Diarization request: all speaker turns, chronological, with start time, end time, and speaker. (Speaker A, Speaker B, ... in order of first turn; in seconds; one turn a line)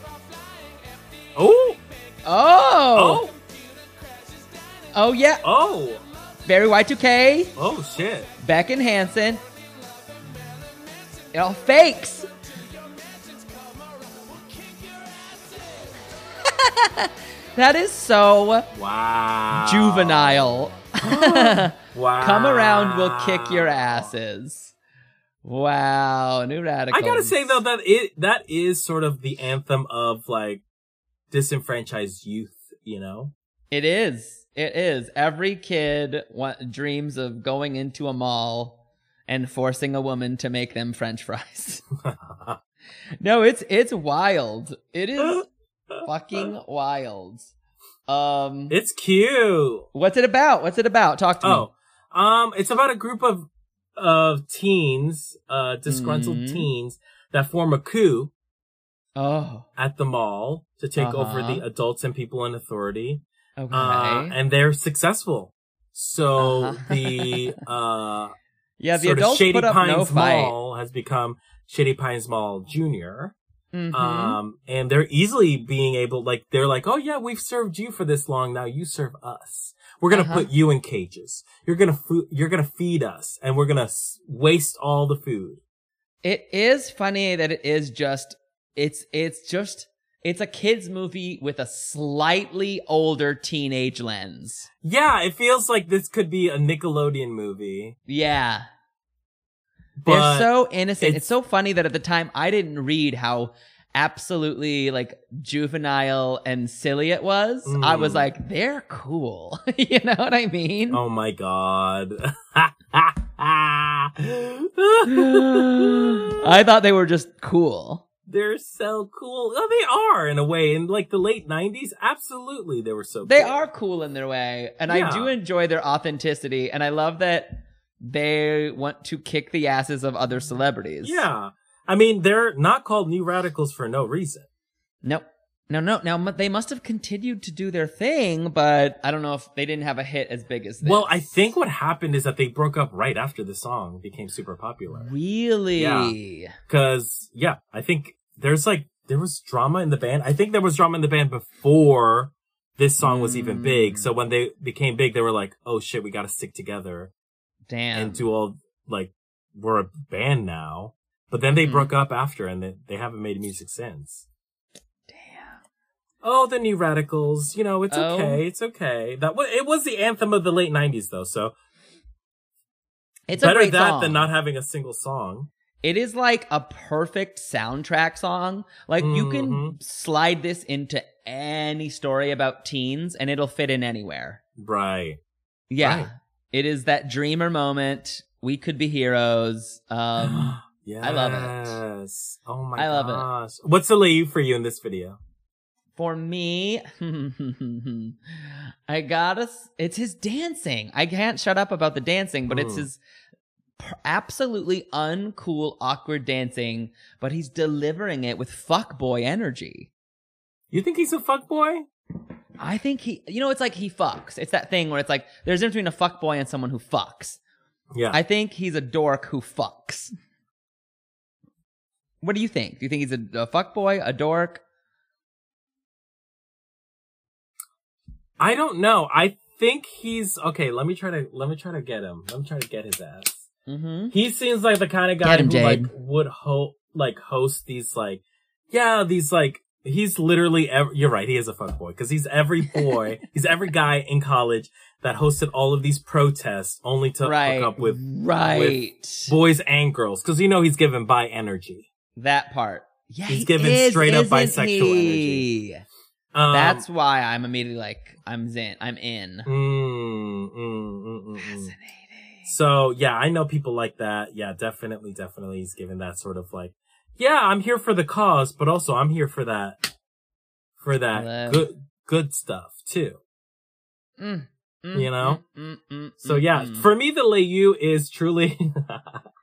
Speaker A: 1.4-1.8
Speaker B: 2.2-3.2
Speaker A: 3.0-3.4
Speaker B: 4.9-5.5
Speaker A: 5.4-6.0
Speaker B: 6.5-7.5
Speaker A: 7.6-8.3
Speaker B: 8.4-9.4
Speaker B: 11.3-12.3
Speaker B: 16.4-18.7
Speaker A: 18.7-20.4
Speaker B: 19.5-24.7
Speaker A: 21.0-24.1
Speaker B: 25.4-27.6
Speaker A: 26.9-30.6
Speaker A: 31.3-33.3
Speaker B: 33.7-41.8
Speaker A: 42.0-42.6
Speaker B: 43.2-45.5
Speaker B: 46.0-47.5
Speaker B: 48.1-48.8
Speaker A: 48.7-49.9
Speaker B: 49.9-51.7
Speaker A: 51.4-58.3
Speaker B: 55.9-56.7
Speaker B: 59.2-59.7
Speaker A: 59.8-68.3
Speaker B: 61.0-61.6
Speaker B: 63.6-64.4
Speaker B: 66.4-67.5
Speaker B: 68.8-70.5
Speaker A: 69.0-73.3
Speaker B: 73.7-74.4
Speaker A: 73.9-85.6
Speaker B: 80.1-80.5
Speaker B: 86.2-94.7
Speaker A: 94.8-98.0
Speaker B: 98.1-98.7
Speaker A: 100.0-101.3
Speaker B: 100.1-111.0
Speaker A: 107.7-108.3
Speaker A: 110.9-116.5
Speaker B: 115.0-118.0
Speaker A: 118.3-123.6
Speaker B: 123.3-131.2
Speaker A: 124.9-125.3
Speaker A: 131.0-134.5
Speaker B: 135.0-141.4
Speaker A: 140.8-145.1
Speaker B: 144.9-146.6
Speaker A: 145.8-146.2
Speaker A: 146.7-157.1
Speaker B: 153.0-154.1
Speaker B: 157.7-158.2
Speaker A: 157.9-164.3
Speaker B: 161.6-161.9
Speaker B: 165.1-165.6
Speaker A: 166.2-171.5
Speaker B: 167.9-168.4
Speaker B: 173.3-174.3
Speaker A: 173.3-175.5
Speaker B: 175.8-184.4
Speaker A: 179.0-179.8
Speaker A: 184.6-185.2
Speaker B: 185.7-191.8
Speaker A: 185.8-186.1
Speaker A: 190.2-195.2
Speaker B: 192.8-193.3
Speaker B: 196.0-203.0
Speaker A: 202.5-202.9
Speaker B: 203.8-209.9
Speaker A: 210.7-211.9
Speaker B: 212.6-217.4
Speaker B: 218.1-220.1
Speaker B: 222.2-224.6
Speaker A: 228.4-233.5
Speaker B: 233.7-234.1
Speaker A: 234.1-251.9
Speaker B: 235.2-235.9
Speaker B: 242.7-243.0
Speaker B: 247.2-249.3
Speaker B: 252.2-255.8
Speaker A: 253.3-255.5
Speaker A: 256.3-256.9
Speaker B: 256.5-259.5
Speaker A: 259.5-261.7
Speaker B: 261.4-262.5
Speaker A: 262.5-269.9
Speaker A: 270.8-273.2
Speaker B: 271.1-271.7
Speaker B: 274.2-276.9
Speaker A: 274.9-275.4
Speaker A: 276.2-279.2